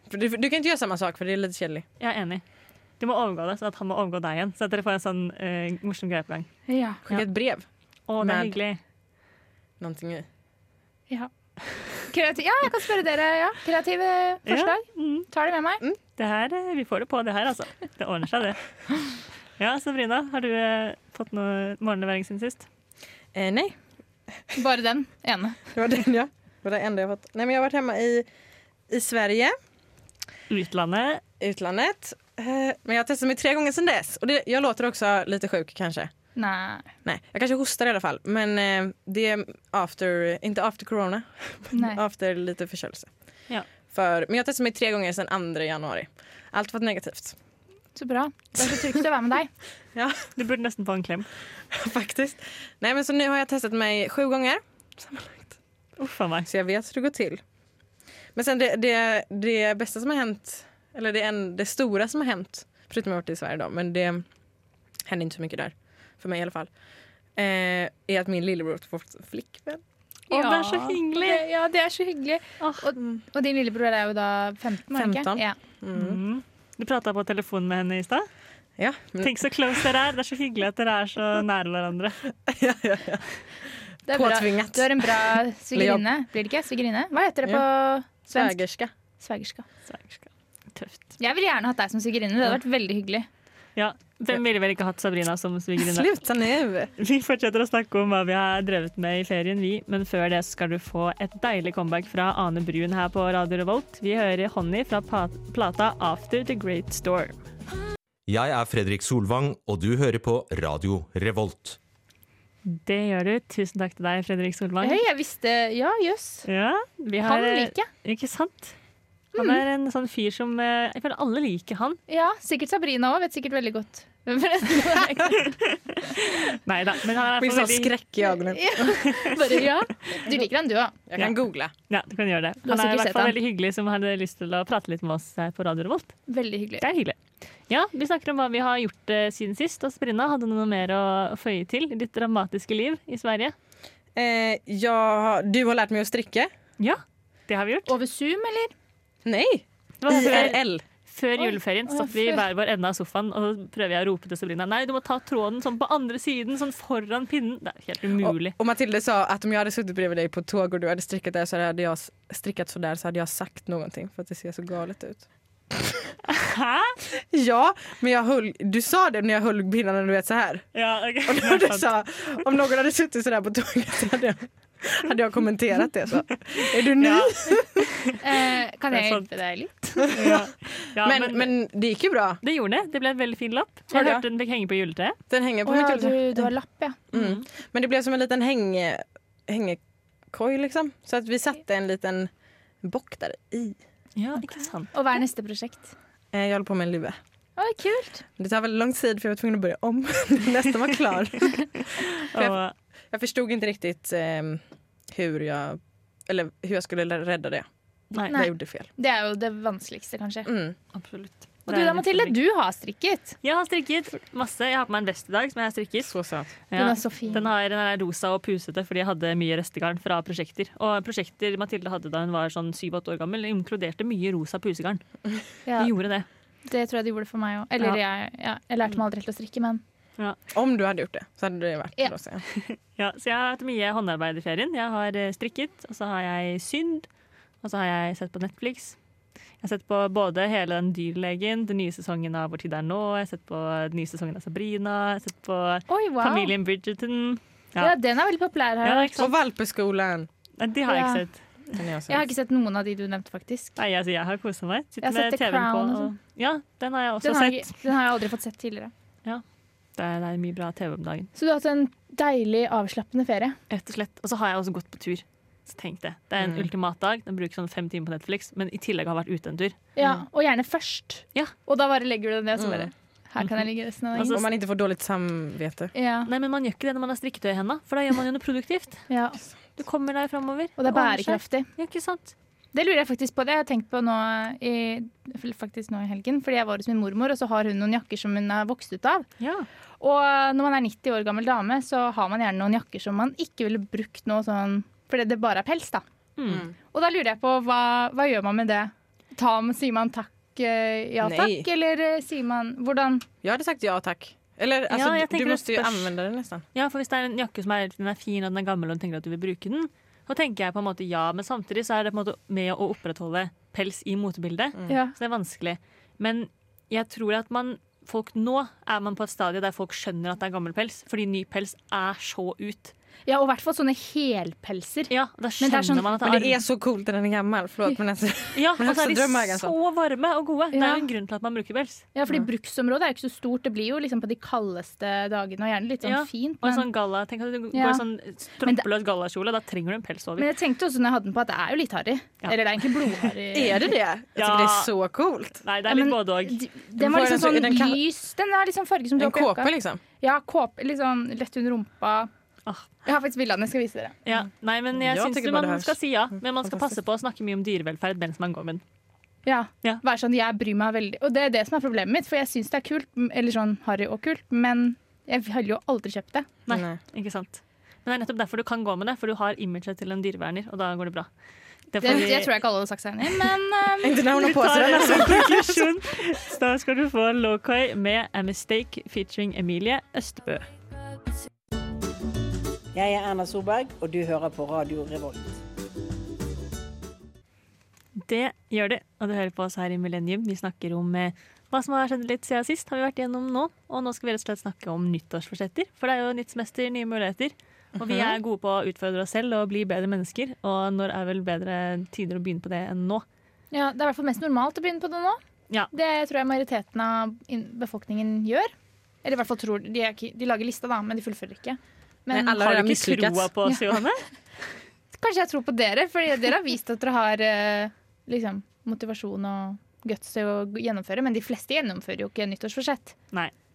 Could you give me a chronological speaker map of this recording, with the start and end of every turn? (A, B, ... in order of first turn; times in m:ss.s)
0:00.1-0:01.8 A
0:02.0-0:02.4 B
0:03.0-0:06.5 B
0:06.7-0:07.0 C
0:07.1-0:07.6 A
0:08.1-0:08.8 B
0:08.2-0:08.6 A
0:09.8-0:10.3 A
0:12.1-0:15.8 C
0:14.5-0:15.3 B
0:16.2-0:18.6 B
0:19.6-0:22.7 B
0:23.3-0:23.8 A
0:24.6-0:25.6 C
0:25.7-0:28.3 A
0:28.9-0:29.6 A
0:30.5-0:31.2 B
0:31.4-0:36.1 A
0:36.4-0:36.9 C
0:37.0-0:43.1 A
0:41.7-0:42.0 C
0:43.9-0:47.4 A
0:48.0-0:49.5 C
0:50.0-0:50.3 A
0:50.4-0:51.3 B
0:51.7-0:55.5 A
0:56.0-0:56.5 B
0:56.4-0:57.4 A
0:58.4-1:04.2 A
1:05.1-1:06.7 A
1:07.4-1:09.8 A
1:10.3-1:15.6 C
1:10.3-1:11.4 B
1:12.6-1:12.9 B
1:14.9-1:16.2 A
1:15.9-1:18.3 B
1:18.8-1:19.4 A
1:19.2-1:22.2 B
1:22.5-1:23.2 A
1:24.1-1:26.0 A
1:24.1-1:28.6 C
1:28.3-1:28.9 A
1:29.2-1:29.6 C
1:29.9-1:31.1 B
1:31.2-1:33.3 C
1:33.8-1:36.1 B
1:35.8-1:36.9 A
1:37.0-1:47.4 B
1:48.3-1:51.8 D
1:52.7-1:55.0 B
1:54.8-1:56.5 C
1:56.5-1:58.8 B
1:57.2-1:57.9 C
1:59.4-2:02.0 B
2:02.1-2:05.5 C
2:05.7-2:07.9 B
2:07.4-2:09.2 A
2:08.5-2:11.0 C
2:09.1-2:09.4 B
2:11.1-2:11.7 A
2:11.9-2:16.2 B
2:12.6-2:13.4 C
2:16.3-2:16.8 C
2:16.8-2:17.2 B
2:17.7-2:23.6 B
2:24.2-2:26.5 A
2:26.8-2:27.9 B
2:27.9-2:28.7 C
2:29.2-2:30.8 A
2:30.0-2:38.6 B
2:31.4-2:32.4 C
2:38.2-2:46.1 A
2:46.3-2:47.0 B
2:47.1-2:50.7 A
2:50.8-2:51.9 B
2:51.2-2:57.8 A
2:57.0-2:58.1 B
2:58.2-3:00.1 C
2:58.9-2:59.3 B
3:00.0-3:01.5 B
3:00.2-3:02.4 A
3:02.4-3:05.2 B
3:03.9-3:04.2 A
3:05.3-3:06.5 A
3:05.6-3:07.0 C
3:07.1-3:09.8 A
3:07.1-3:07.4 B
3:10.3-3:12.3 A
3:12.8-3:13.8 A
3:14.2-3:14.9 B
3:14.9-3:15.9 C
3:16.3-3:17.2 A
3:17.6-3:18.2 C
3:18.4-3:22.6 A
3:22.2-3:22.7 B
3:23.1-3:28.9 A
3:28.3-3:30.5 C
3:30.5-3:30.8 A
3:30.9-3:32.4 B
3:31.7-3:33.4 C
3:33.4-3:36.2 B
3:36.0-3:36.6 A
3:36.7-3:45.0 B
3:36.8-3:37.4 C
3:45.7-3:45.9 C
3:45.8-3:46.3 B
3:46.7-3:49.8 C
3:50.5-3:52.4 A
3:52.6-3:57.1 B
3:57.6-3:59.0 B
3:59.6-4:08.0 B
4:05.9-4:06.5 C
4:07.8-4:09.3 C
4:08.8-4:09.3 B
4:09.2-4:10.3 A
4:10.6-4:11.4 B
4:10.9-4:11.2 C
4:11.8-4:12.3 A
4:12.1-4:13.8 C
4:13.8-4:17.7 B
4:15.0-4:16.1 C
4:17.2-4:18.9 C
4:20.0-4:21.3 B
4:21.4-4:23.6 C
4:23.7-4:29.8 B
4:26.4-4:26.7 A
4:30.0-4:34.4 C
4:32.6-4:32.9 A
4:34.1-4:34.4 B
4:34.3-4:35.9 A
4:36.0-4:36.3 C
4:36.3-4:39.1 B
4:39.1-4:39.4 C
4:39.8-4:42.3 B
4:40.8-4:41.7 C
4:42.7-4:49.3 C
4:49.4-4:49.7 B
4:50.0-4:56.0 C
4:56.4-4:56.7 B
4:56.5-4:56.7 A
4:56.9-5:03.3 C
5:01.2-5:01.7 A
5:03.4-5:06.6 A
5:04.9-5:06.1 B
5:06.7-5:22.9 B
5:14.9-5:15.1 C
5:23.3-5:26.3 C
5:25.1-5:26.6 B
5:26.2-5:29.7 A
5:28.6-5:32.1 B
5:30.7-5:31.1 C
5:32.2-5:36.9 C
5:36.0-5:40.5 B
5:37.7-5:38.0 C
5:40.4-5:43.9 C
5:42.4-5:43.3 B
5:43.5-5:45.6 A
5:44.4-5:44.9 B
5:45.6-5:46.6 B
5:45.9-5:52.3 C
5:47.0-5:48.0 A
5:49.2-5:50.0 A
5:53.0-5:54.2 C
5:54.2-5:58.8 B
5:54.9-5:56.0 A
5:56.6-5:56.9 A
5:59.5-6:06.5 C
6:06.7-6:11.3 B
6:06.7-6:07.0 A
6:11.9-6:12.5 B
6:12.0-6:14.3 C
6:14.0-6:16.0 A
6:14.4-6:20.7 B
6:22.9-6:25.6 E
6:28.2-6:43.2 B
6:38.0-6:38.4 A
6:43.7-6:45.4 C
6:45.9-6:48.7 C
6:49.2-6:52.6 C
6:52.3-6:54.0 A
6:52.4-6:54.2 B
6:55.1-7:03.2 C